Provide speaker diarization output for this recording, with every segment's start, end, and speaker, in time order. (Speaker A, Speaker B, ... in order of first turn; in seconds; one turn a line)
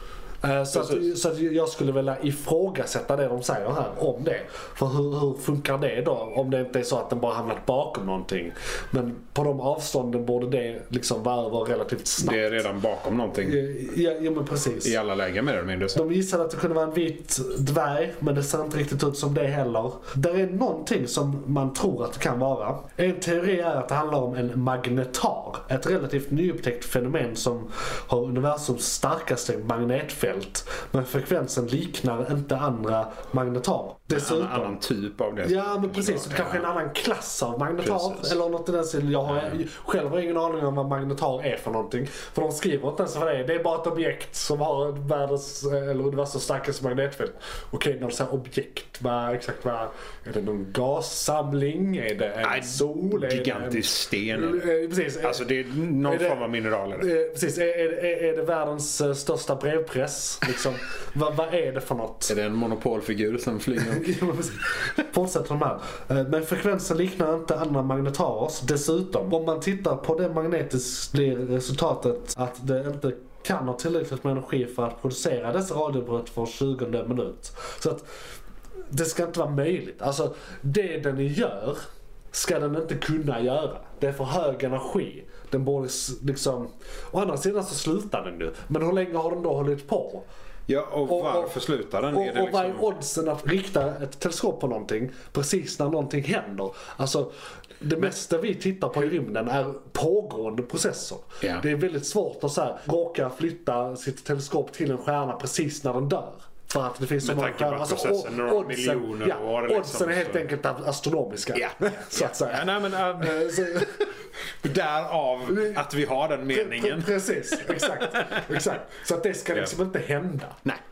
Speaker A: 0.4-12.4
Speaker B: 0.7-1.1
Speaker B: 12.2-13.6
Speaker A: 13.4-14.9
Speaker B: 14.8-16.0
Speaker A: 15.9-34.8
Speaker B: 34.1-36.7
Speaker A: 35.4-55.4
Speaker B: 37.8-38.4
Speaker B: 52.4-54.7
Speaker B: 55.2-57.1
Speaker A: 56.0-62.3
Speaker B: 62.3-64.2
Speaker A: 63.8-78.0
Speaker A: 78.9-81.8
Speaker A: 82.3-90.2
Speaker B: 90.7-92.9
Speaker A: 91.1-91.5
Speaker A: 92.1-114.1
Speaker B: 107.2-110.4
Speaker B: 111.5-114.0
Speaker B: 114.6-118.6
Speaker A: 115.5-115.8
Speaker A: 116.5-120.6